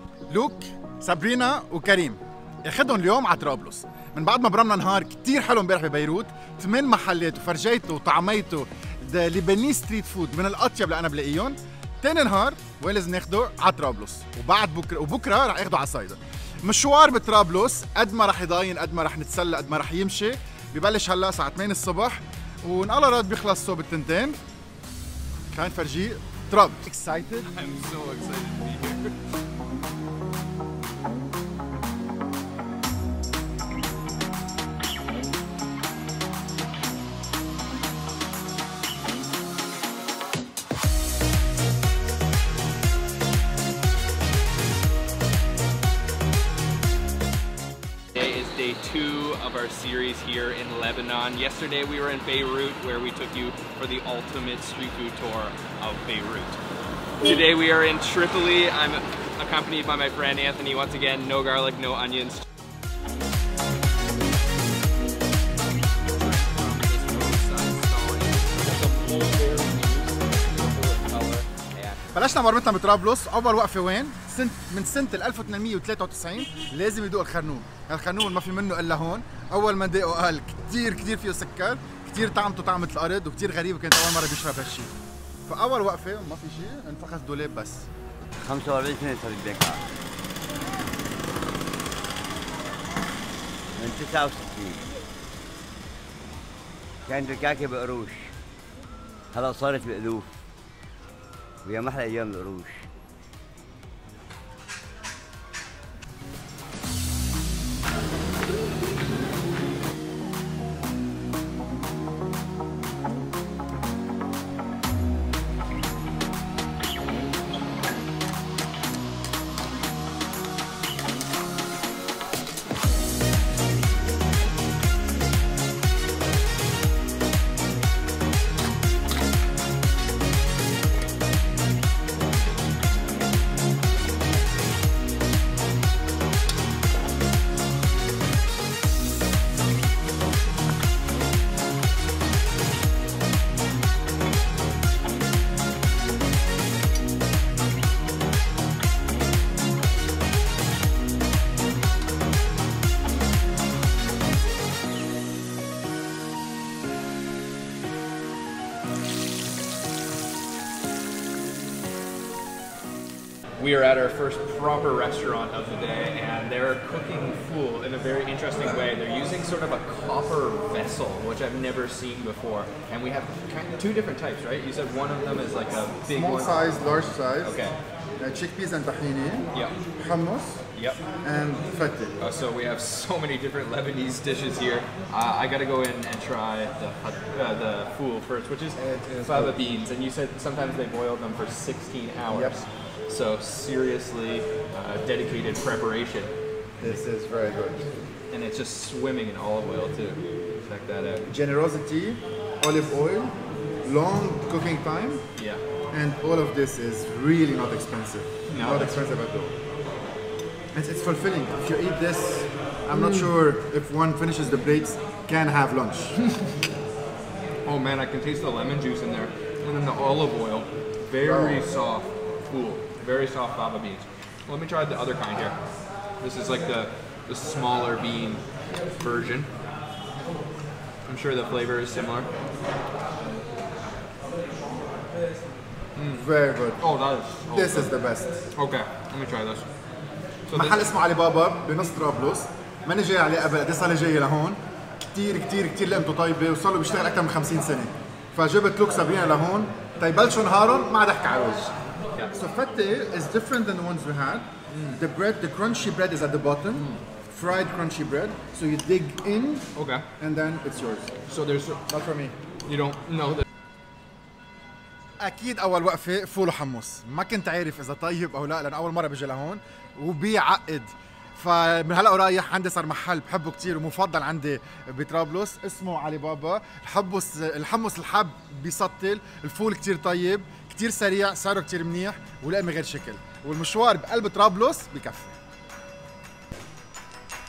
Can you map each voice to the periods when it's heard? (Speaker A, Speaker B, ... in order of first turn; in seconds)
Speaker A: 0.3-24.4, 25.5-27.5, 72.1-84.9, 85.5-87.9, 176.1-177.6, 178.2-180.6, 181.2-182.1, 188.8-189.6, 192.3-192.6, 196.8-197.9, 201.3-205.2, 205.9-209.5, 210.7-216.2, 221.2-221.7, 236.1-236.8, 237.5-238.5, 240.5-251.7, 252.3-261.1, 261.9-262.4, 265.2-285.4
Speaker B: 27.5-29.1, 48.1-56.6, 57.2-62.4, 66.1-72.0, 163.6-177.8, 179.5-179.8, 180.7-181.0, 182.2-196.3, 198.3-201.2, 205.3-205.6, 208.5-208.9, 212.9-213.3, 217.6-225.6, 226.2-229.5, 231.1-232.3, 236.0-237.9, 238.5-239.7, 240.5-240.9, 254.7-255.0, 256.7-257.0, 259.7-260.0, 261.3-261.8, 262.6-263.4
Speaker C: 88.4-89.8, 93.8-94.8, 97.0-98.3, 99.3-100.3, 101.6-102.8